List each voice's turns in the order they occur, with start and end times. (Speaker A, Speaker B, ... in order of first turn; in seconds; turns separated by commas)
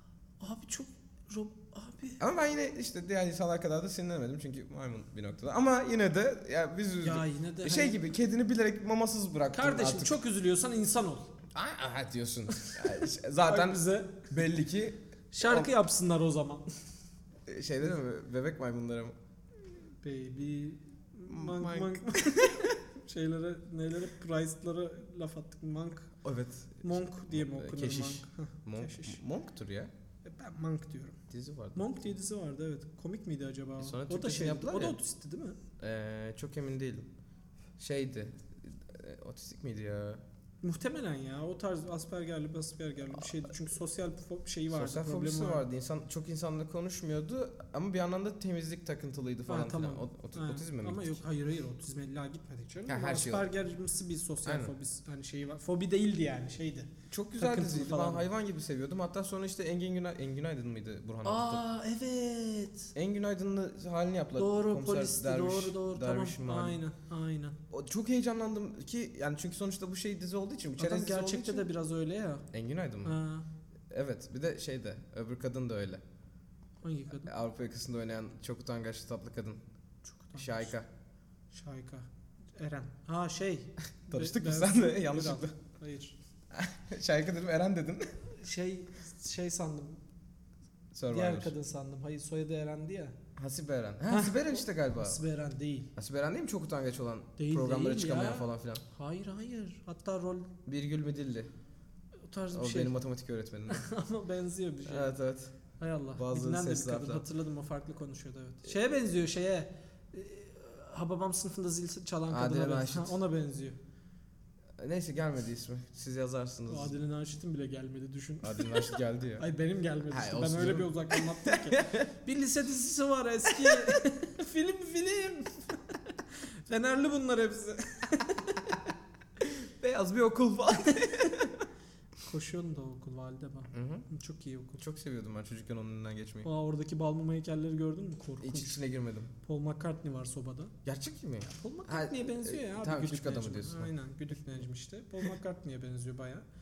Speaker A: 0.4-2.2, Speaker B: 2.2-10.2, Speaker A: 7.0-8.0, Speaker A: 9.5-11.3, Speaker B: 11.5-15.7, Speaker A: 12.5-14.3, Speaker A: 15.3-16.7, Speaker B: 17.5-19.1, Speaker A: 20.0-26.1, Speaker B: 21.3-22.7, Speaker B: 26.2-29.9, Speaker A: 26.8-29.2, Speaker A: 30.2-31.2, Speaker B: 31.3-31.9, Speaker A: 31.7-35.6, Speaker B: 33.8-35.0, Speaker B: 35.8-37.1, Speaker B: 37.8-40.2, Speaker A: 40.6-45.6, Speaker B: 44.7-51.2, Speaker A: 49.5-58.3, Speaker B: 52.9-53.5, Speaker B: 54.4-54.7, Speaker B: 57.1-61.6, Speaker A: 61.2-62.9, Speaker B: 62.9-66.8, Speaker A: 64.4-67.6, Speaker B: 67.7-71.7, Speaker A: 70.8-72.4, Speaker B: 72.5-73.2, Speaker A: 73.0-73.5, Speaker B: 73.9-76.0, Speaker A: 76.8-77.3, Speaker B: 77.2-79.6, Speaker A: 80.0-80.7, Speaker B: 80.4-80.9, Speaker A: 81.5-86.2, Speaker B: 84.1-85.5, Speaker B: 86.5-88.2, Speaker A: 88.3-90.0, Speaker B: 90.9-91.5, Speaker A: 91.1-93.1, Speaker B: 93.3-95.2, Speaker A: 94.1-95.9, Speaker B: 95.9-98.8, Speaker A: 97.4-100.5, Speaker B: 100.7-101.5, Speaker A: 102.3-103.0, Speaker B: 102.5-103.9, Speaker A: 103.7-105.1, Speaker B: 104.8-105.5, Speaker A: 105.8-113.8, Speaker B: 106.2-107.2, Speaker B: 112.3-113.2, Speaker B: 114.8-117.0, Speaker A: 116.7-128.8, Speaker B: 118.4-119.4, Speaker B: 120.1-122.1, Speaker B: 123.6-124.0, Speaker B: 129.4-131.7, Speaker A: 132.2-134.8, Speaker B: 133.7-134.1, Speaker B: 134.8-136.5, Speaker A: 136.4-138.8, Speaker B: 138.4-139.3, Speaker A: 139.4-140.7, Speaker B: 140.8-143.9, Speaker A: 141.5-146.4